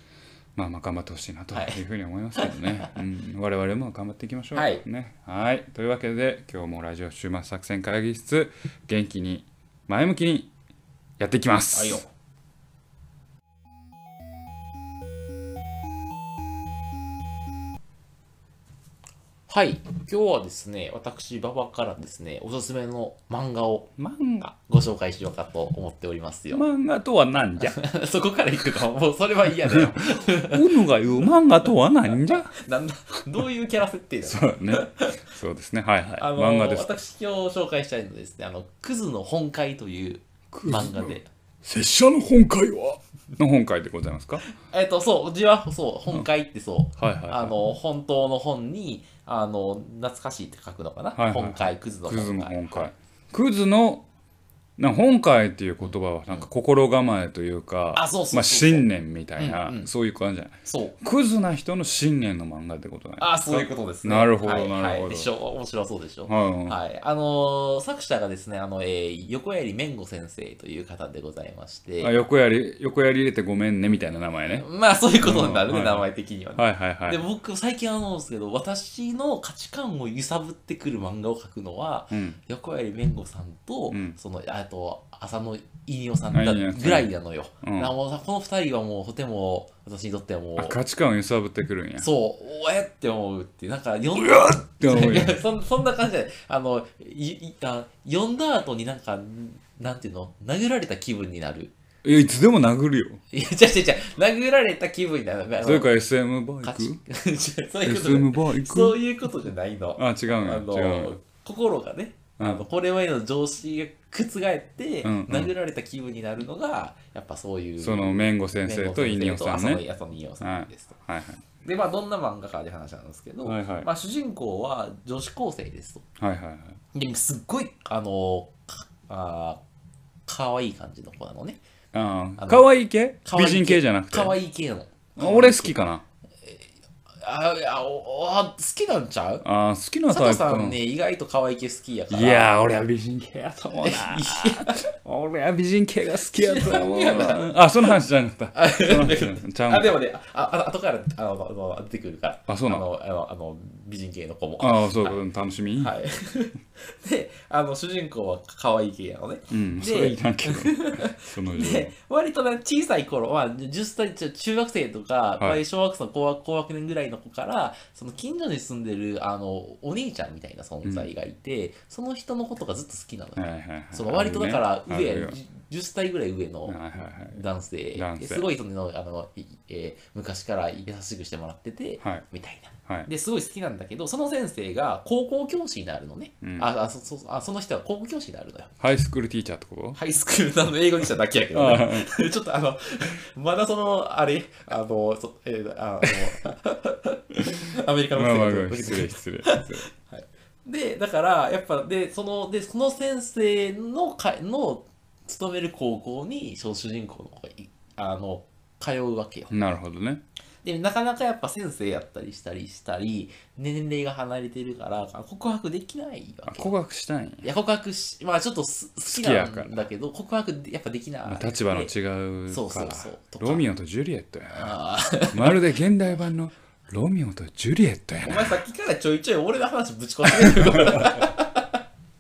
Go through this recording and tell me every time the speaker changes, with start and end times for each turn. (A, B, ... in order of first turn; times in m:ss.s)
0:00.6-0:10.5 A
0:01.5-0:01.8 B
0:02.4-0:03.0 B
0:04.6-0:04.8 B
0:11.2-0:12.0 A
0:11.7-0:12.1 B
0:19.5-0:23.9 B
0:24.0-0:24.5 A
0:24.4-0:26.6 B
0:26.5-0:27.8 A
0:27.6-0:30.7 B
0:29.7-0:32.6 A
0:32.1-0:35.3 B
0:34.2-0:36.9 A
0:36.2-0:41.3 B
0:40.5-0:44.4 A
0:44.6-0:52.9 B
0:47.0-0:47.6 A
0:51.2-0:54.0 A
0:54.8-1:05.3 A
0:55.8-0:56.5 B
0:57.9-0:59.9 B
1:00.7-1:01.0 B
1:03.2-1:12.1 B
1:06.3-1:06.8 A
1:12.0-1:14.7 A
1:14.6-1:30.8 B
1:15.2-1:17.2 A
1:22.1-1:22.4 A
1:23.9-1:24.2 A
1:26.3-1:27.1 A
1:27.6-1:27.9 A
1:30.6-1:32.1 A
1:32.0-1:41.7 B
1:34.2-1:35.4 A
1:42.0-1:43.2 A
1:43.3-1:45.9 B
1:45.6-1:47.0 A
1:46.6-2:01.0 B
1:47.8-1:49.0 A
1:50.0-1:51.2 A
1:52.4-1:52.6 A
1:55.0-1:55.5 A
1:57.8-1:59.8 A
2:00.4-2:01.4 A
2:01.6-2:06.0 B
2:03.4-2:03.9 A
2:06.2-2:06.8 A
2:06.9-2:09.6 B
2:10.3-2:11.6 B
2:11.9-2:14.4 A
2:12.4-2:12.7 B
2:13.2-2:15.8 B
2:15.2-2:16.0 A
2:17.2-2:19.4 B
2:19.4-2:20.8 A
2:20.1-2:22.5 B
2:22.1-2:29.9 A
2:23.8-2:24.9 B
2:26.3-2:27.9 B
2:28.5-2:35.2 B
2:32.5-2:32.8 A
2:34.6-2:36.0 A
2:35.8-3:08.7 B
2:39.5-2:41.9 A
2:50.8-2:51.1 A
2:53.4-2:55.4 A
2:56.7-2:57.4 A
2:58.0-2:58.5 A
3:06.4-3:06.7 A
3:08.8-3:10.0 A
3:10.0-3:29.5 B
3:11.5-3:12.1 A
3:18.1-3:19.9 A
3:29.5-3:30.2 A
3:30.6-3:36.7 B
3:36.5-3:37.5 A
3:37.4-3:41.9 B
3:39.0-3:39.9 A
3:41.2-3:44.8 A
3:42.5-3:43.6 B
3:44.5-3:45.6 B
3:45.3-3:48.6 A
3:48.2-3:51.8 B
3:50.5-3:51.2 A